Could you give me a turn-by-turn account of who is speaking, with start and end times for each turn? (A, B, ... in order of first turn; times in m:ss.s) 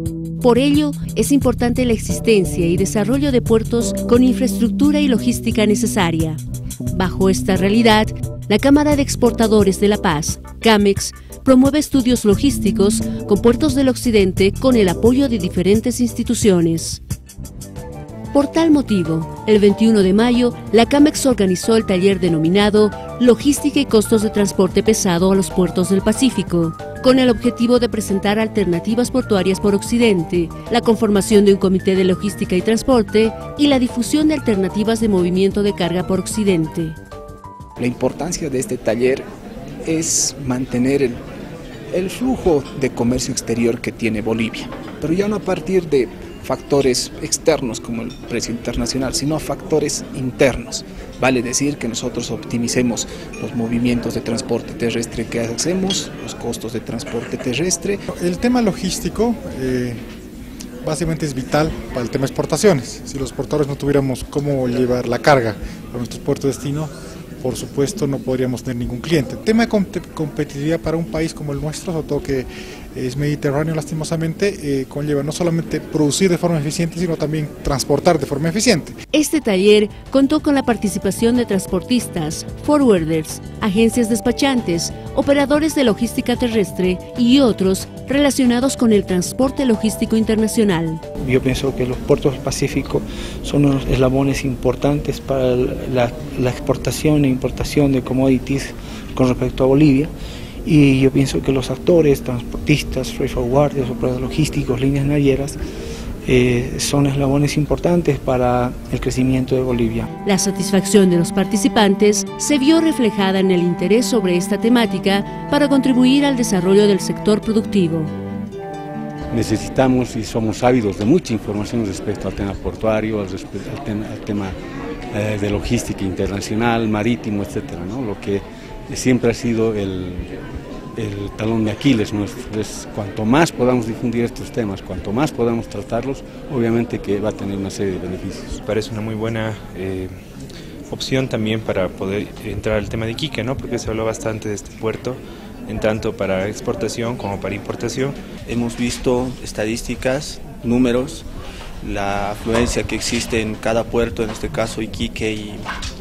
0:00.4-0:17.0 A
0:18.3-0:37.0 A
0:37.8-0:39.3 B
0:39.8-0:41.2 B
0:41.9-0:58.0 B
0:58.1-1:00.0 C
1:00.8-1:18.9 C
1:19.1-1:31.0 A
1:31.2-1:40.1 D
1:40.6-1:45.6 D
1:46.3-1:50.1 D
1:50.2-1:58.1 A
1:59.3-2:04.6 E
2:05.1-2:10.3 E
2:11.0-2:18.6 E
2:18.7-2:20.1 F
2:20.9-2:28.2 F
2:28.5-2:31.2 G
2:31.8-2:35.7 G